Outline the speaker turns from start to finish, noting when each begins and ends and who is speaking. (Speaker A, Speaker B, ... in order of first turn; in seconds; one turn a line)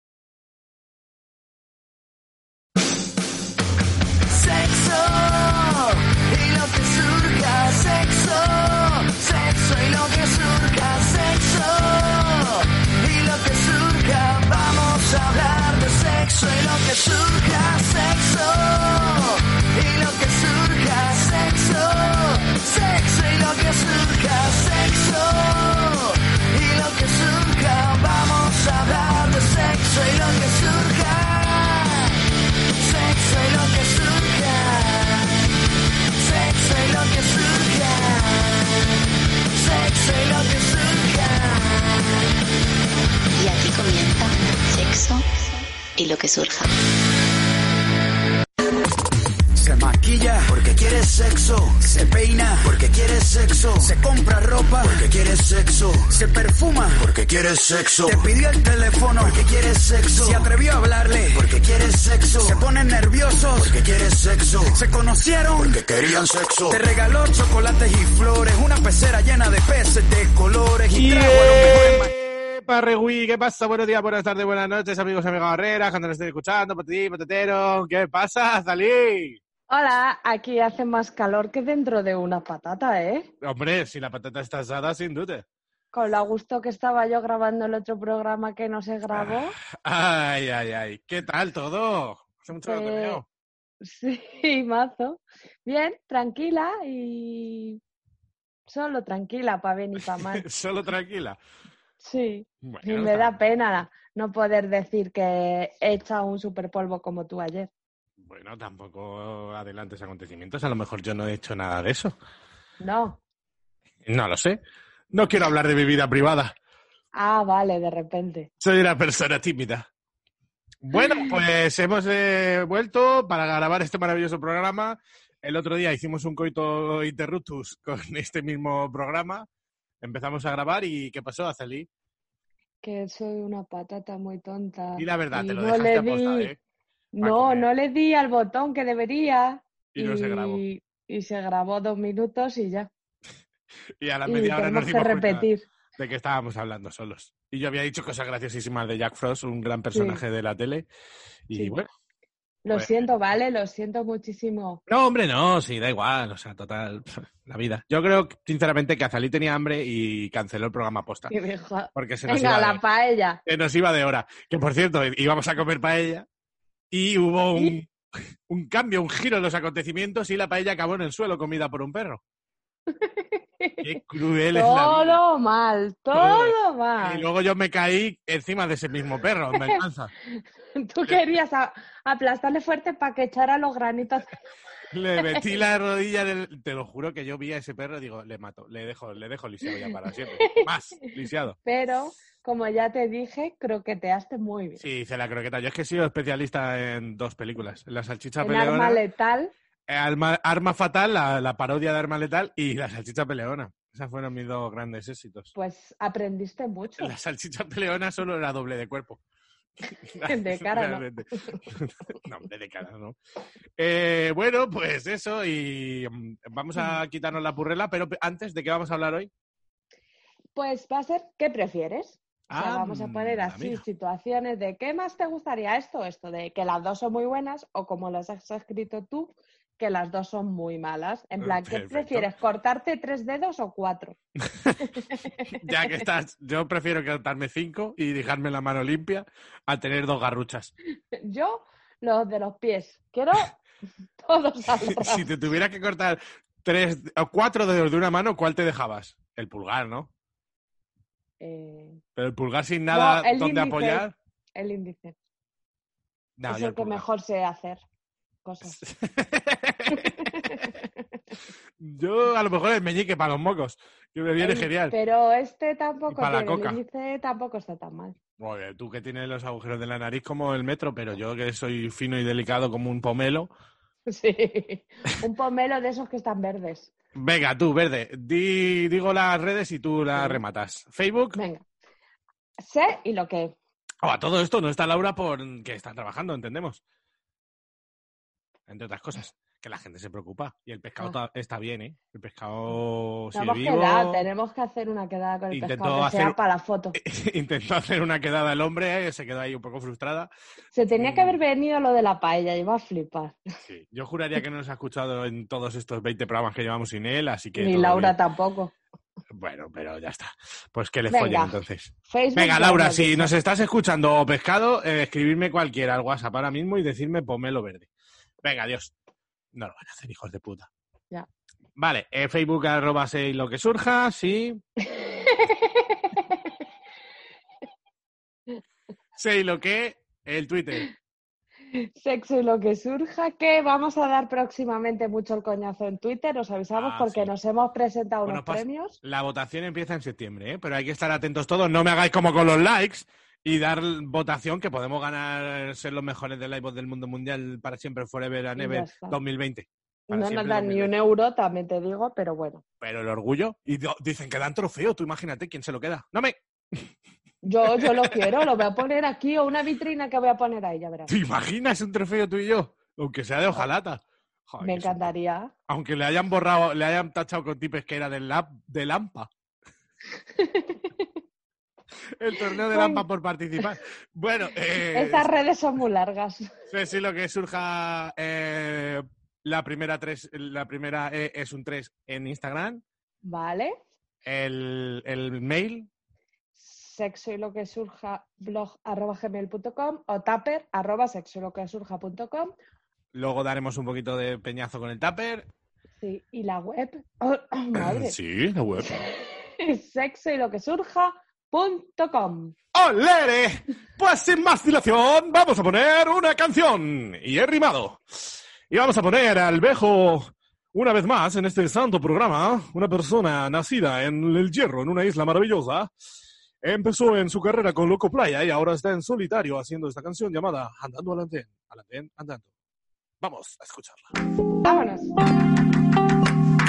Speaker A: 4.3-32.1
Speaker A: 32.8-35.4
Speaker A: 36.2-38.6
Speaker A: 39.5-41.9
Speaker B: 43.3-45.2
Speaker B: 46.0-46.7
Speaker C: 49.5-72.1
Speaker A: 54.8-55.7
Speaker A: 57.1-58.1
Speaker A: 61.4-62.1
Speaker A: 63.7-64.7
Speaker A: 65.7-66.8
Speaker D: 70.9-79.4
Speaker E: 79.7-83.3
Speaker D: 83.4-85.4
Speaker E: 85.9-89.6
Speaker D: 89.1-93.2
Speaker E: 92.6-93.2
Speaker E: 93.8-97.8
Speaker E: 98.7-100.5
Speaker D: 100.0-101.4
Speaker E: 102.0-107.7
Speaker D: 102.6-103.4
Speaker D: 108.2-112.2
Speaker E: 112.8-113.2
Speaker D: 114.0-114.6
Speaker D: 115.1-116.5
Speaker E: 117.1-118.5
Speaker D: 118.6-119.9
Speaker D: 120.8-129.5
Speaker D: 130.0-131.9
Speaker E: 132.8-136.5
Speaker D: 135.0-136.6
Speaker E: 137.1-142.9
Speaker D: 137.2-137.7
Speaker D: 139.9-140.6
Speaker D: 144.0-150.9
Speaker E: 144.2-145.7
Speaker E: 149.9-150.2
Speaker D: 151.5-151.9
Speaker E: 151.5-151.8
Speaker E: 152.6-154.8
Speaker D: 154.9-161.3
Speaker E: 161.3-163.4
Speaker D: 161.9-162.8
Speaker D: 163.4-166.2
Speaker D: 166.9-167.9
Speaker D: 168.5-172.2
Speaker E: 172.9-177.2
Speaker D: 173.8-175.2
Speaker D: 176.1-180.1
Speaker E: 179.5-184.3
Speaker D: 184.9-191.6
Speaker E: 190.4-190.7
Speaker E: 191.6-194.8
Speaker D: 194.8-199.0
Speaker E: 198.4-199.5
Speaker D: 199.9-205.5
Speaker E: 205.5-207.1
Speaker D: 207.0-209.2
Speaker D: 209.9-213.2
Speaker E: 210.2-211.6
Speaker D: 213.8-219.3
Speaker E: 220.5-234.2
Speaker D: 222.5-223.8
Speaker D: 231.4-232.3
Speaker D: 234.4-234.9
Speaker E: 235.0-235.7
Speaker D: 235.5-240.7
Speaker E: 241.2-243.6
Speaker E: 244.2-245.3
Speaker D: 244.8-250.1
Speaker E: 251.4-252.0
Speaker D: 252.2-254.1
Speaker E: 252.9-255.1
Speaker D: 256.4-257.0
Speaker E: 256.5-257.8
Speaker E: 258.4-258.8
Speaker D: 258.6-260.7
Speaker E: 259.9-260.8
Speaker D: 261.8-264.9
Speaker E: 264.4-268.1
Speaker D: 266.1-266.8
Speaker D: 268.4-273.5
Speaker E: 274.1-276.9
Speaker D: 277.1-281.4
Speaker E: 280.1-280.4
Speaker E: 281.4-281.6
Speaker E: 282.6-283.6
Speaker D: 284.0-286.8
Speaker D: 288.7-294.2
Speaker E: 293.3-296.9
Speaker D: 295.5-296.4
Speaker D: 296.9-300.3
Speaker E: 300.7-303.4
Speaker D: 300.9-301.4
Speaker D: 303.6-308.1
Speaker E: 307.6-308.7
Speaker D: 309.3-317.9
Speaker E: 311.1-311.6
Speaker E: 312.1-313.3
Speaker D: 318.4-318.9
Speaker D: 319.5-320.7
Speaker D: 321.8-324.6
Speaker E: 324.9-326.5
Speaker D: 329.1-330.9
Speaker E: 331.7-339.0
Speaker D: 336.7-337.3
Speaker D: 338.2-350.9
Speaker E: 348.6-349.2
Speaker E: 350.1-352.6
Speaker D: 352.8-356.9
Speaker E: 357.4-361.1
Speaker D: 357.7-358.4
Speaker D: 361.1-365.1
Speaker E: 364.6-365.5
Speaker D: 365.7-369.3
Speaker E: 370.3-371.0
Speaker D: 372.2-375.3
Speaker E: 372.6-373.0
Speaker E: 374.9-376.5
Speaker D: 376.7-382.8
Speaker E: 383.2-383.7
Speaker D: 384.2-385.9
Speaker E: 386.6-392.5
Speaker D: 393.1-395.5
Speaker E: 396.0-398.2
Speaker D: 397.7-399.1
Speaker E: 399.1-402.5
Speaker D: 402.7-415.9
Speaker D: 416.6-422.5
Speaker D: 423.2-424.1
Speaker E: 424.6-425.1